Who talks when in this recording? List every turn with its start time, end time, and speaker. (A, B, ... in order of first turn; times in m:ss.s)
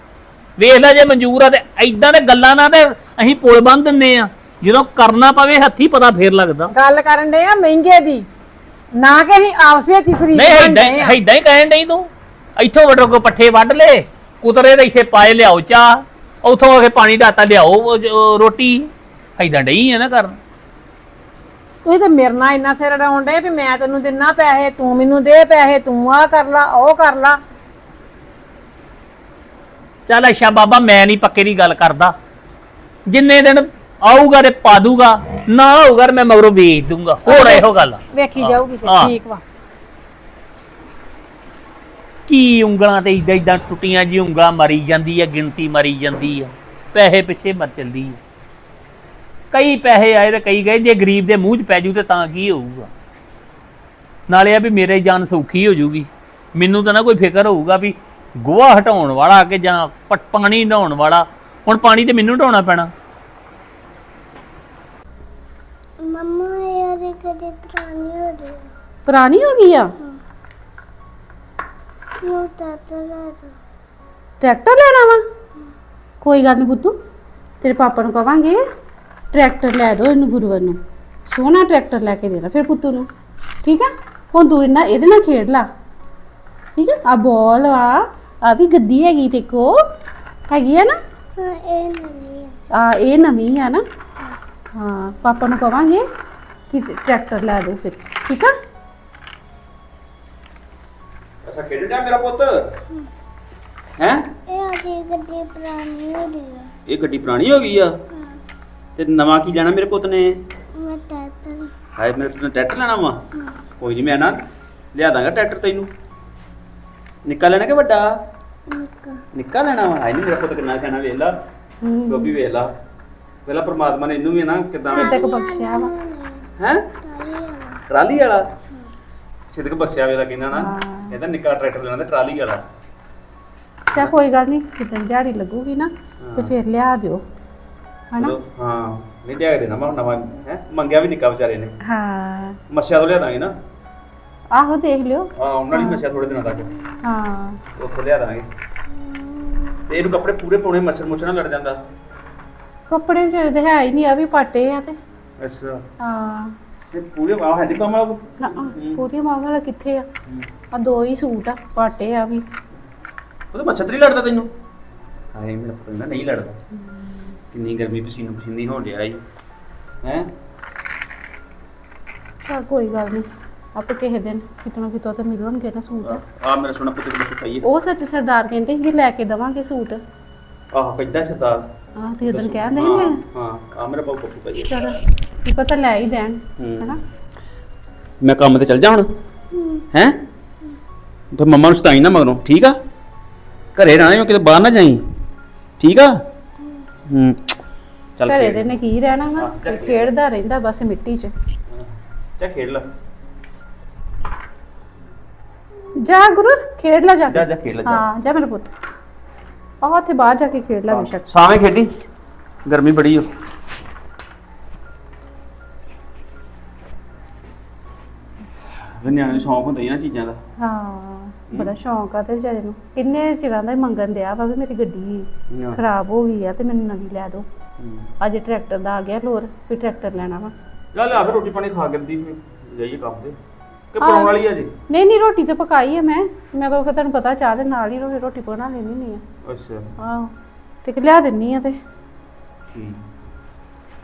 0:00.6-0:06.7 A
0:06.7-0:08.2 B
0:09.0-0:11.2 B
0:10.3-0:20.4 A
0:21.8-0:27.4 B
0:30.1-0:32.1 A
0:33.1-0:39.1 A
0:37.3-0:39.4 B
0:42.3-0:48.2 A
0:49.5-0:52.9 A
0:54.3-1:02.9 A
1:06.0-1:08.6 C
1:09.1-1:09.9 D
1:12.2-1:13.5 C
1:14.4-1:15.2 D
1:16.2-1:17.0 D
1:17.6-1:18.6 D
1:19.3-1:23.1 D
1:23.6-1:25.7 D
1:26.8-1:29.8 D
1:30.5-1:31.0 D
1:31.4-1:32.6 C
1:32.7-1:33.8 D
1:34.7-1:36.0 D
1:36.7-1:38.5 D
1:41.4-1:42.7 E
1:44.0-1:44.2 E
1:44.5-1:46.7 C
1:46.9-1:48.0 E
1:48.1-1:48.4 C
1:49.0-1:50.4 E
1:50.8-1:51.7 C
1:52.0-1:53.2 E
1:53.8-1:54.4 E
1:54.9-1:55.9 E
1:57.3-1:58.1 E
1:58.7-1:59.2 C
1:59.3-2:01.4 E
2:01.8-2:02.4 D
2:02.1-2:02.7 E
2:03.5-2:05.2 E
2:04.8-2:05.9 D
2:04.9-2:06.4 C
2:06.6-2:06.9 E
2:07.0-2:07.8 C
2:07.9-2:08.5 E
2:09.5-2:12.6 E
2:10.5-2:11.2 D
2:13.9-2:17.2 D
2:16.2-2:16.5 E
2:18.2-2:21.8 E
2:21.8-2:22.6 D
2:22.7-2:23.5 E
2:24.5-2:26.0 D
2:25.4-2:26.7 E
2:27.0-2:27.6 D
2:27.8-2:28.5 E
2:29.9-2:31.8 E
2:32.9-2:35.0 D
2:35.4-2:35.8 E
2:36.0-2:36.6 D
2:36.9-2:39.0 E
2:38.4-2:40.1 D
2:40.7-2:42.4 D
2:43.5-2:44.5 E
2:45.3-2:46.6 E
2:47.5-2:49.2 E
2:50.0-2:50.3 E
2:52.4-2:56.2 D
2:56.0-2:57.6 E
2:57.6-3:00.0 D
3:00.7-3:01.6 E
3:02.0-3:03.2 D
3:02.3-3:04.8 E
3:04.7-3:07.0 D
3:06.6-3:07.0 E
3:08.2-3:09.1 E
3:09.5-3:09.8 C
3:09.9-3:10.2 E
3:11.3-3:12.8 E
3:13.8-3:15.0 E
3:15.8-3:16.2 E
3:17.1-3:17.4 E
3:18.2-3:18.7 E
3:18.3-3:21.3 D
3:19.4-3:20.1 E
3:22.4-3:22.8 E
3:26.0-3:28.7 D
3:27.3-3:28.0 E
3:29.8-3:31.3 D
3:30.9-3:31.9 E
3:32.7-3:33.3 E
3:39.0-3:40.4 E
3:40.6-3:47.5 D
3:45.5-3:45.8 E
3:47.8-3:48.1 E
3:48.2-3:50.5 D
3:51.0-3:53.4 E
3:53.9-3:54.7 E
3:54.0-3:54.4 D
3:54.9-3:59.2 D
3:59.4-3:59.9 E
4:00.0-4:00.3 D
4:00.8-4:01.8 D
4:02.7-4:03.0 E